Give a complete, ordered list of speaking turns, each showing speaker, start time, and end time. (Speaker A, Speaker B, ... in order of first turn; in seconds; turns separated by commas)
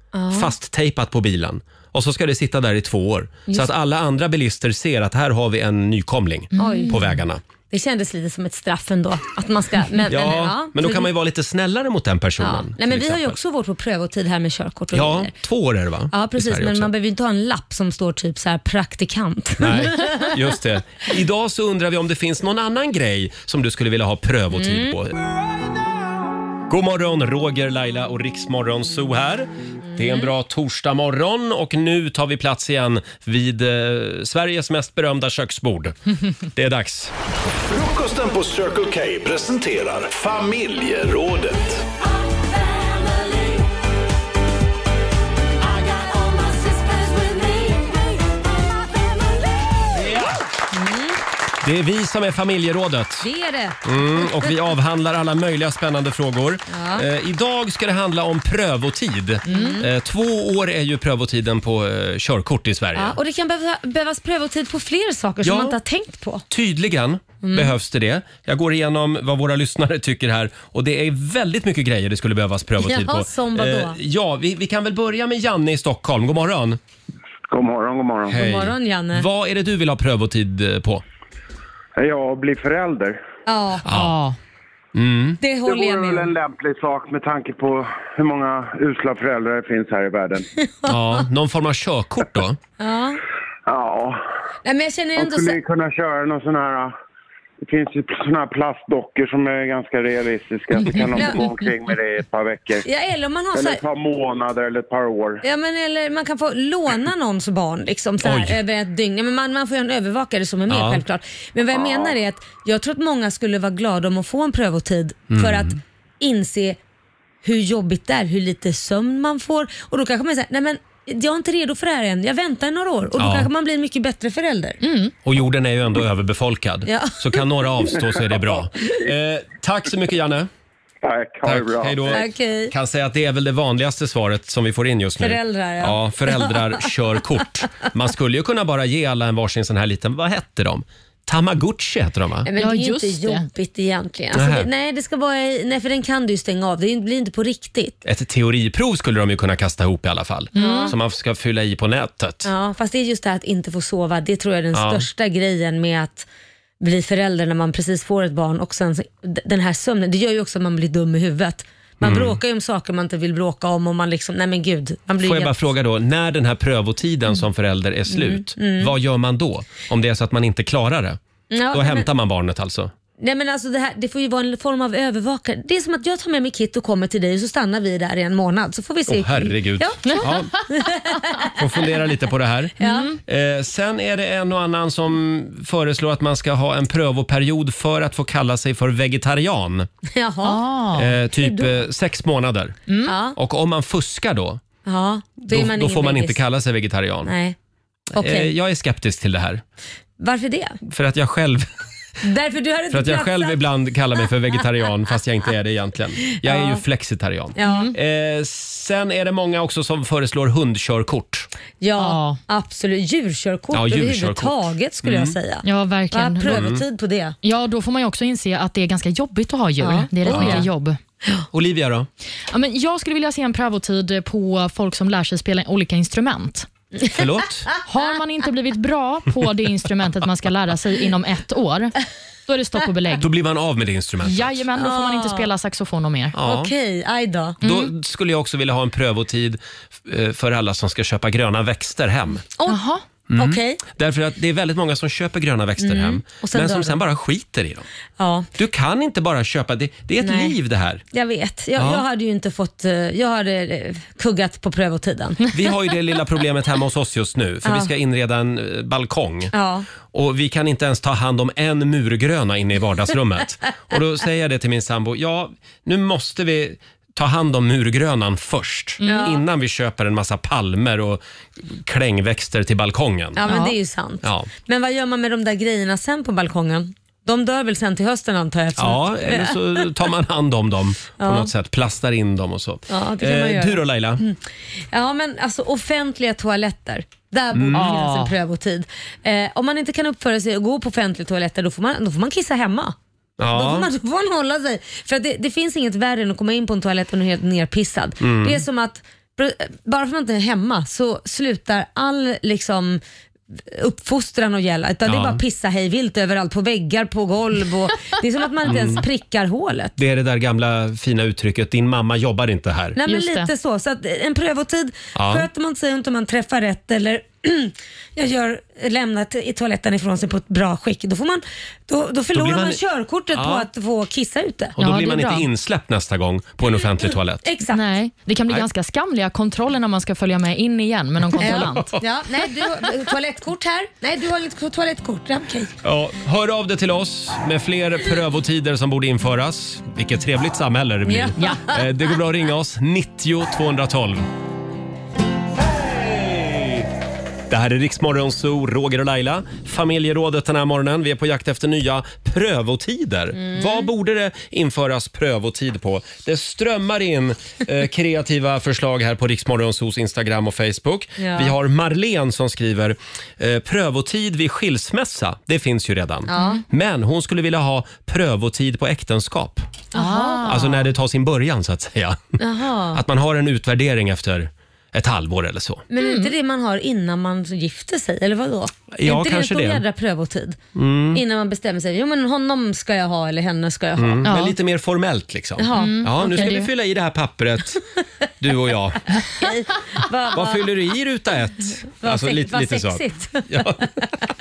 Speaker A: 0.1-0.5, Speaker B: 0.3-7.4, Speaker C: 6.5-7.0, Speaker A: 6.6-7.0, Speaker A: 7.7-11.1, Speaker B: 10.1-13.4, Speaker A: 12.4-15.3, Speaker B: 14.9-16.9, Speaker A: 16.1-20.4, Speaker B: 19.6-25.1, Speaker A: 24.5-25.0, Speaker B: 26.7-37.1, Speaker D: 37.6-41.8, Speaker A: 46.0-47.9, Speaker B: 50.0-50.3, Speaker A: 50.7-51.2, Speaker B: 51.6-53.3, Speaker A: 53.2-54.6, Speaker B: 53.8-63.2, Speaker A: 56.7-57.1, Speaker A: 59.5-59.9, Speaker C: 59.5-59.8, Speaker A: 63.0-66.5, Speaker B: 65.4-65.8, Speaker B: 66.5-76.8, Speaker A: 67.4-67.7, Speaker A: 72.8-74.0, Speaker E: 77.5-78.4, Speaker B: 78.3-81.0, Speaker A: 78.3-79.3, Speaker E: 82.0-83.2, Speaker A: 83.5-83.9, Speaker B: 83.9-84.2, Speaker C: 83.9-84.4, Speaker B: 85.0-85.4, Speaker A: 85.4-86.3, Speaker E: 85.7-90.5, Speaker A: 90.7-91.0, Speaker B: 90.9-92.6, Speaker A: 92.8-93.2, Speaker E: 93.7-94.2, Speaker A: 94.7-95.6, Speaker E: 95.2-96.9, Speaker E: 97.6-102.9, Speaker A: 102.8-103.8, Speaker E: 103.5-105.4, Speaker A: 105.4-116.8, Speaker B: 108.2-108.6, Speaker B: 110.7-111.0, Speaker B: 115.3-115.8, Speaker A: 117.4-124.8, Speaker B: 123.2-123.5, Speaker C: 124.8-125.1, Speaker B: 125.2-130.5, Speaker A: 126.9-127.4, Speaker E: 131.0-132.1, Speaker B: 131.4-142.5, Speaker A: 132.1-132.7, Speaker A: 135.2-136.9, Speaker A: 142.5-148.0, Speaker C: 142.6-143.5, Speaker B: 144.3-144.7, Speaker B: 148.1-152.5, Speaker C: 150.6-150.9, Speaker A: 150.6-151.0, Speaker A: 152.4-156.3, Speaker B: 154.7-155.1, Speaker A: 156.8-165.6, Speaker B: 162.0-162.4, Speaker B: 165.2-171.2, Speaker A: 168.1-168.9, Speaker A: 171.5-172.1, Speaker B: 171.7-172.9, Speaker A: 173.2-181.6, Speaker B: 179.1-180.5, Speaker B: 181.5-182.7, Speaker A: 182.8-183.2, Speaker C: 182.8-183.2, Speaker B: 183.2-189.9, Speaker A: 190.1-190.7, Speaker C: 190.4-191.1, Speaker B: 191.0-192.8, Speaker A: 191.4-191.8, Speaker C: 192.9-193.1, Speaker A: 193.1-193.4, Speaker B: 193.3-194.6, Speaker A: 194.9-196.4, Speaker B: 195.5-197.3, Speaker A: 197.3-197.6, Speaker B: 198.1-199.6, Speaker A: 198.2-198.5, Speaker A: 200.2-200.8, Speaker B: 200.9-201.7, Speaker A: 202.2-203.6, Speaker B: 202.9-211.5, Speaker A: 206.4-206.8, Speaker A: 207.6-207.9, Speaker C: 207.6-207.9, Speaker A: 211.8-217.3, Speaker C: 212.0-212.4, Speaker B: 213.7-215.4, Speaker C: 215.6-216.6, Speaker B: 216.5-216.8, Speaker C: 217.4-221.0, Speaker A: 219.8-220.7, Speaker B: 220.3-220.7, Speaker B: 221.5-222.1, Speaker C: 222.5-226.7, Speaker A: 227.0-227.8, Speaker B: 227.1-227.7, Speaker C: 227.9-233.2, Speaker B: 233.2-234.6, Speaker C: 234.2-236.4, Speaker A: 234.8-235.5, Speaker B: 236.3-236.7, Speaker A: 236.4-237.6, Speaker B: 237.6-242.4, Speaker C: 237.6-237.9, Speaker C: 242.7-243.0, Speaker B: 243.3-247.9, Speaker A: 243.4-243.8, Speaker A: 245.8-247.0, Speaker A: 248.2-248.5, Speaker B: 248.6-251.0, Speaker A: 250.2-250.6, Speaker A: 251.1-255.5, Speaker B: 251.8-252.0, Speaker B: 255.5-259.5, Speaker A: 257.6-257.9, Speaker A: 259.5-259.9, Speaker B: 260.1-273.4, Speaker C: 269.0-269.3, Speaker A: 269.0-269.4, Speaker A: 273.4-279.9, Speaker C: 273.5-273.8, Speaker B: 274.2-274.5, Speaker B: 278.8-284.2, Speaker A: 281.2-281.5, Speaker A: 282.9-293.0, Speaker B: 287.5-288.0, Speaker C: 287.7-288.3, Speaker B: 293.4-293.9, Speaker A: 293.5-303.0, Speaker B: 298.2-298.6, Speaker A: 303.7-310.0, Speaker B: 305.1-305.4, Speaker B: 308.6-309.1, Speaker B: 310.0-313.0, Speaker A: 313.0-324.7, Speaker C: 313.1-313.5, Speaker B: 315.1-315.5, Speaker B: 322.3-323.7, Speaker B: 324.8-327.5, Speaker C: 324.8-325.5, Speaker A: 327.4-327.8, Speaker C: 327.7-331.9, Speaker B: 331.4-332.0, Speaker A: 331.4-335.8, Speaker B: 335.8-344.3, Speaker A: 341.1-341.8, Speaker B: 345.6-346.9, Speaker B: 347.5-369.7, Speaker A: 353.4-353.9, Speaker A: 361.2-361.5, Speaker A: 366.3-366.6, Speaker C: 369.9-370.8, Speaker A: 369.9-370.8, Speaker B: 370.5-372.4, Speaker A: 372.4-373.0, Speaker B: 372.9-375.8, Speaker A: 375.9-380.6, Speaker C: 376.0-376.3, Speaker B: 378.9-379.8, Speaker B: 380.8-381.2, Speaker A: 381.1-384.3, Speaker B: 384.0-387.8, Speaker C: 384.2-384.5, Speaker A: 385.6-386.6, Speaker C: 385.8-386.7, Speaker B: 388.4-389.2, Speaker A: 389.4-390.7, Speaker B: 390.3-394.0, Speaker A: 392.0-393.7